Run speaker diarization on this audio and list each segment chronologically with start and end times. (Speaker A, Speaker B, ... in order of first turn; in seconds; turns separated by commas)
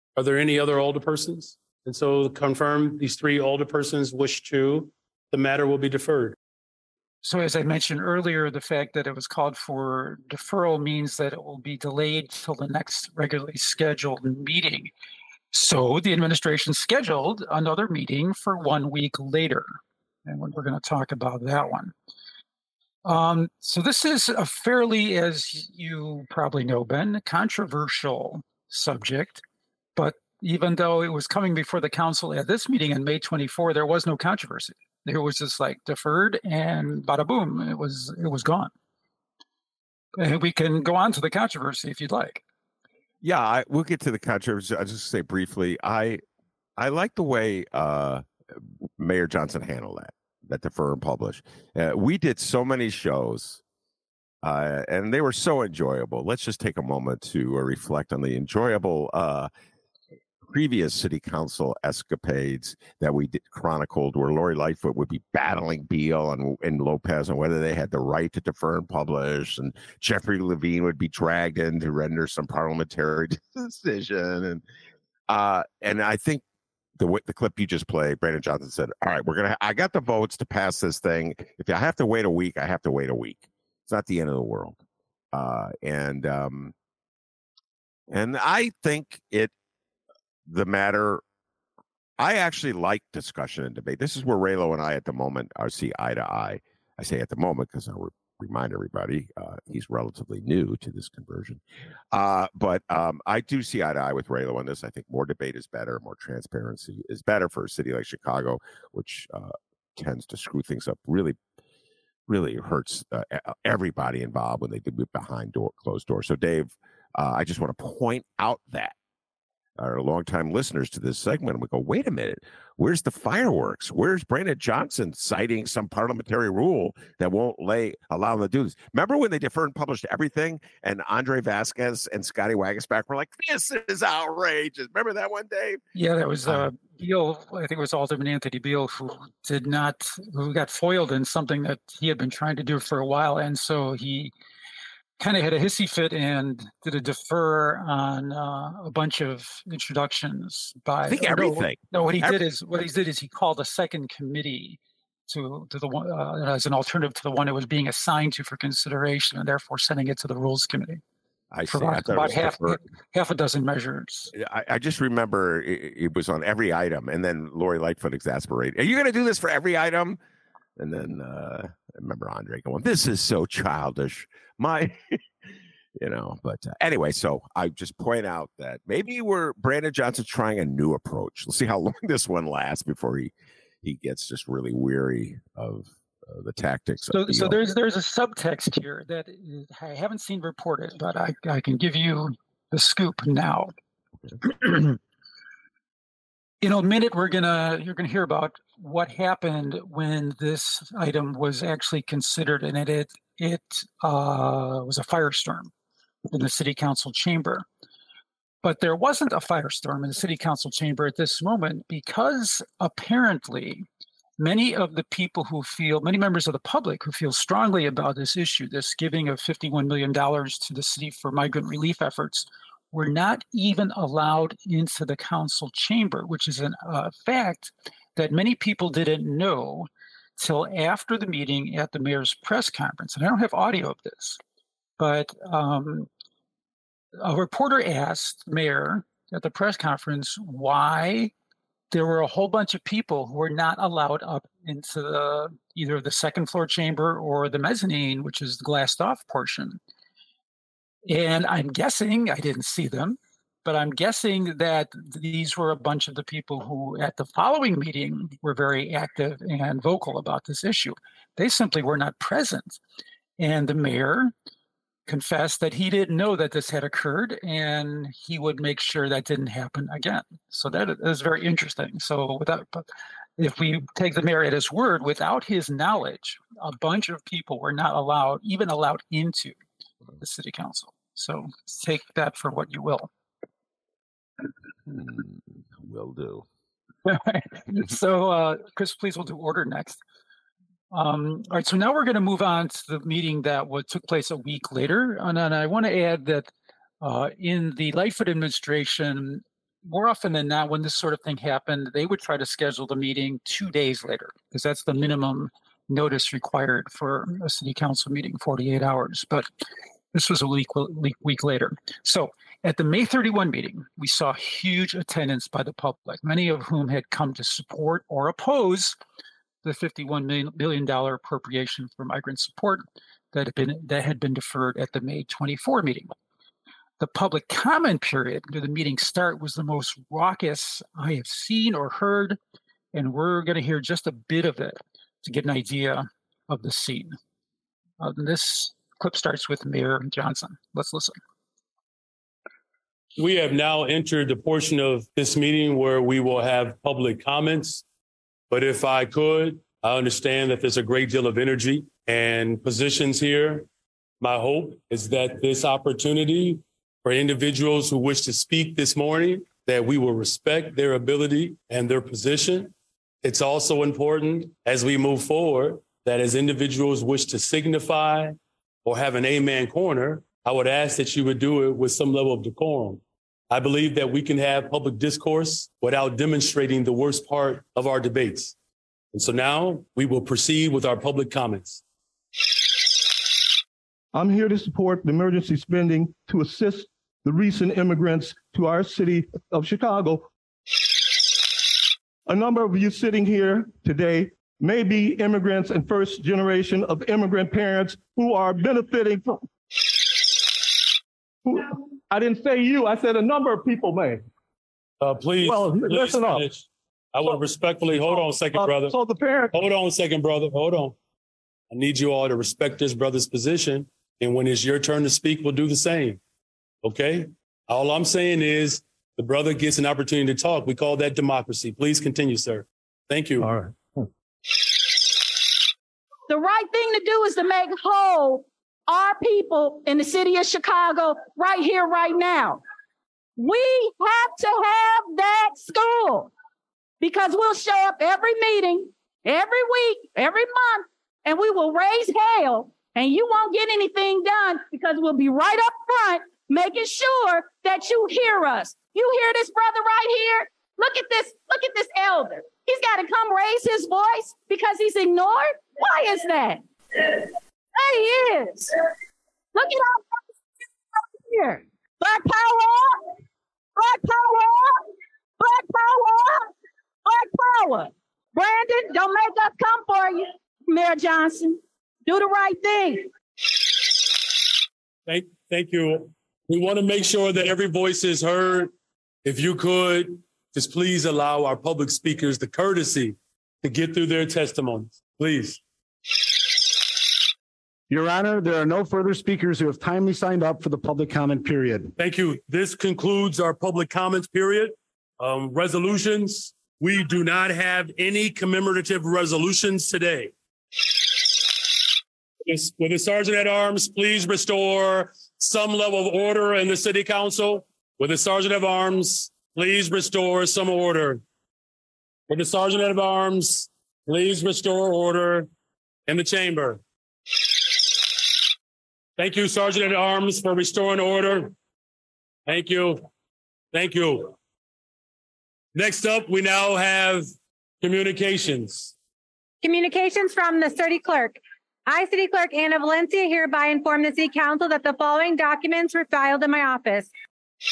Speaker A: 0.2-6.4, Speaker B: 7.2-14.9, Speaker B: 15.5-21.9, Speaker B: 23.1-29.4, Speaker B: 30.0-38.7, Speaker B: 40.2-42.4, Speaker C: 43.2-46.2, Speaker C: 46.8-53.6, Speaker C: 54.4-59.5, Speaker C: 60.5-74.6, Speaker C: 75.3-76.4, Speaker C: 77.0-84.8, Speaker C: 85.3-86.7, Speaker C: 88.1-89.5, Speaker C: 90.5-91.2, Speaker C: 92.2-101.6, Speaker C: 102.1-111.4, Speaker C: 112.3-119.0, Speaker C: 119.8-135.8, Speaker B: 135.9-144.3, Speaker B: 145.2-161.0, Speaker C: 151.0-152.4, Speaker C: 161.5-162.8, Speaker B: 161.7-164.3, Speaker C: 164.3-170.2, Speaker C: 170.8-175.2, Speaker C: 176.0-183.3, Speaker C: 183.8-187.6, Speaker B: 187.1-193.7, Speaker B: 194.4-195.0, Speaker B: 196.6-205.7, Speaker B: 206.3-207.7, Speaker B: 208.6-213.9, Speaker B: 214.4-234.4, Speaker B: 235.0-236.1, Speaker B: 237.2-241.3, Speaker B: 241.9-249.8, Speaker B: 251.1-262.8, Speaker B: 263.4-264.3, Speaker B: 265.1-279.6, Speaker B: 280.2-283.1, Speaker C: 284.9-286.4, Speaker B: 287.1-290.0, Speaker B: 290.9-296.5, Speaker B: 297.0-309.5, Speaker B: 310.1-319.0, Speaker B: 319.6-326.1, Speaker B: 327.0-332.4, Speaker B: 332.9-337.1, Speaker B: 338.0-341.1, Speaker A: 343.2-347.8, Speaker A: 348.5-353.7, Speaker A: 354.2-378.6, Speaker A: 379.1-381.8, Speaker D: 384.1-390.3, Speaker D: 392.3-399.4, Speaker D: 401.4-404.2, Speaker A: 405.0-408.9, Speaker D: 405.4-406.5, Speaker D: 408.1-409.6, Speaker A: 409.5-411.0, Speaker A: 411.7-416.2, Speaker A: 416.8-423.5, Speaker D: 423.4-423.7, Speaker E: 426.3-432.6, Speaker E: 433.4-436.3, Speaker E: 437.0-458.7, Speaker E: 459.6-460.2, Speaker E: 461.0-463.1, Speaker E: 463.8-464.9, Speaker E: 465.4-466.5, Speaker E: 467.1-473.1, Speaker A: 475.1-478.7, Speaker A: 479.2-485.6, Speaker F: 487.9-491.9, Speaker A: 492.0-500.3, Speaker A: 502.4-511.2, Speaker A: 512.3-515.5, Speaker A: 516.1-516.8, Speaker A: 519.2-521.5, Speaker A: 522.5-523.1, Speaker A: 523.7-524.4, Speaker A: 525.8-527.3, Speaker A: 527.8-528.9, Speaker G: 529.6-537.1